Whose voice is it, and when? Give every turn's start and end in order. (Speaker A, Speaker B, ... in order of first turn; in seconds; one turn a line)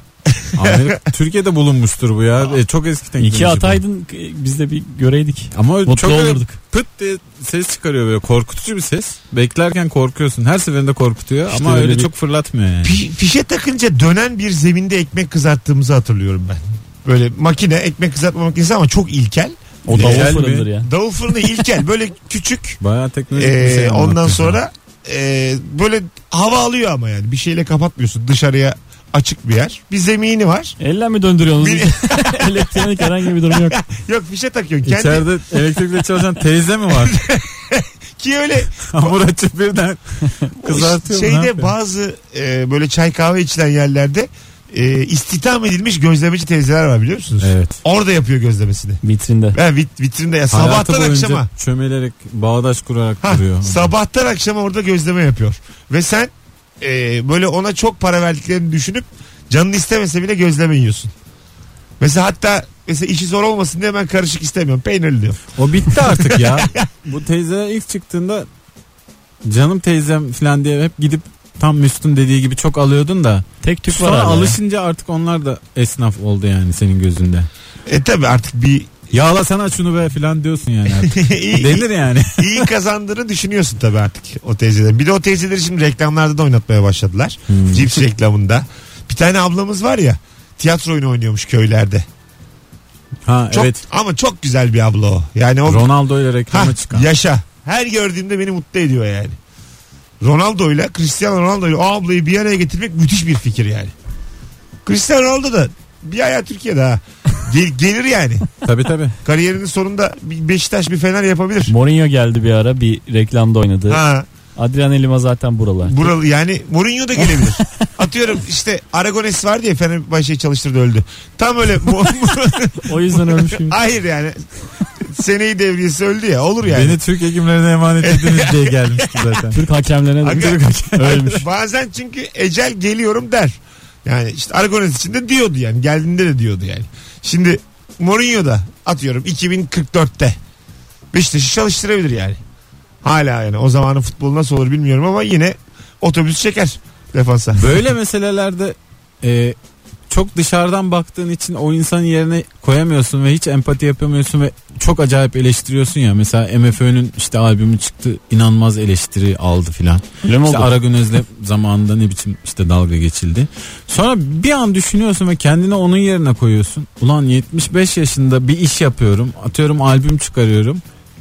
Speaker A: 0.3-1.0
Speaker B: 0.6-3.8
Speaker C: 3.2-6.6
Speaker B: 5.5-13.0
Speaker C: 11.5-12.1
Speaker A: 12.8-20.3
Speaker C: 19.8-20.9
Speaker B: 19.9-20.7
Speaker A: 20.8-22.8
Speaker B: 22.8-24.6
Speaker A: 23.3-30.8
Speaker C: 30.8-33.8
Speaker A: 31.6-35.3
Speaker B: 34.8-37.2
Speaker A: 37.0-39.1
Speaker B: 38.8-41.7
Speaker A: 40.6-49.0
Speaker B: 47.4-47.8
Speaker C: 49.0-49.6
Speaker A: 49.5-51.5
Speaker B: 50.5-53.9
Speaker A: 53.2-61.1
Speaker A: 62.0-66.9
Speaker B: 65.5-68.5
Speaker B: 69.4-77.5
Speaker C: 73.6-74.6
Speaker A: 77.9-78.9
Speaker B: 79.1-82.7
Speaker A: 81.0-92.0
Speaker B: 87.5-88.0
Speaker B: 93.2-93.8
Speaker A: 93.5-95.9
Speaker B: 95.7-97.1
Speaker A: 96.5-99.4
Speaker A: 100.2-103.9
Speaker A: 104.8-108.5
Speaker B: 108.6-109.2
Speaker A: 109.2-111.7
Speaker C: 111.7-114.0
Speaker A: 113.9-114.2
Speaker C: 114.5-116.1
Speaker A: 115.8-124.4
Speaker C: 117.3-117.6
Speaker C: 122.8-123.8
Speaker A: 125.0-127.0
Speaker B: 126.6-129.6
Speaker A: 128.0-129.2
Speaker C: 129.5-131.4
Speaker B: 130.2-131.4
Speaker A: 130.2-130.6
Speaker A: 131.2-140.4
Speaker A: 141.1-142.4
Speaker A: 143.0-147.8
Speaker B: 147.5-149.6
Speaker B: 150.1-170.8
Speaker C: 160.2-160.7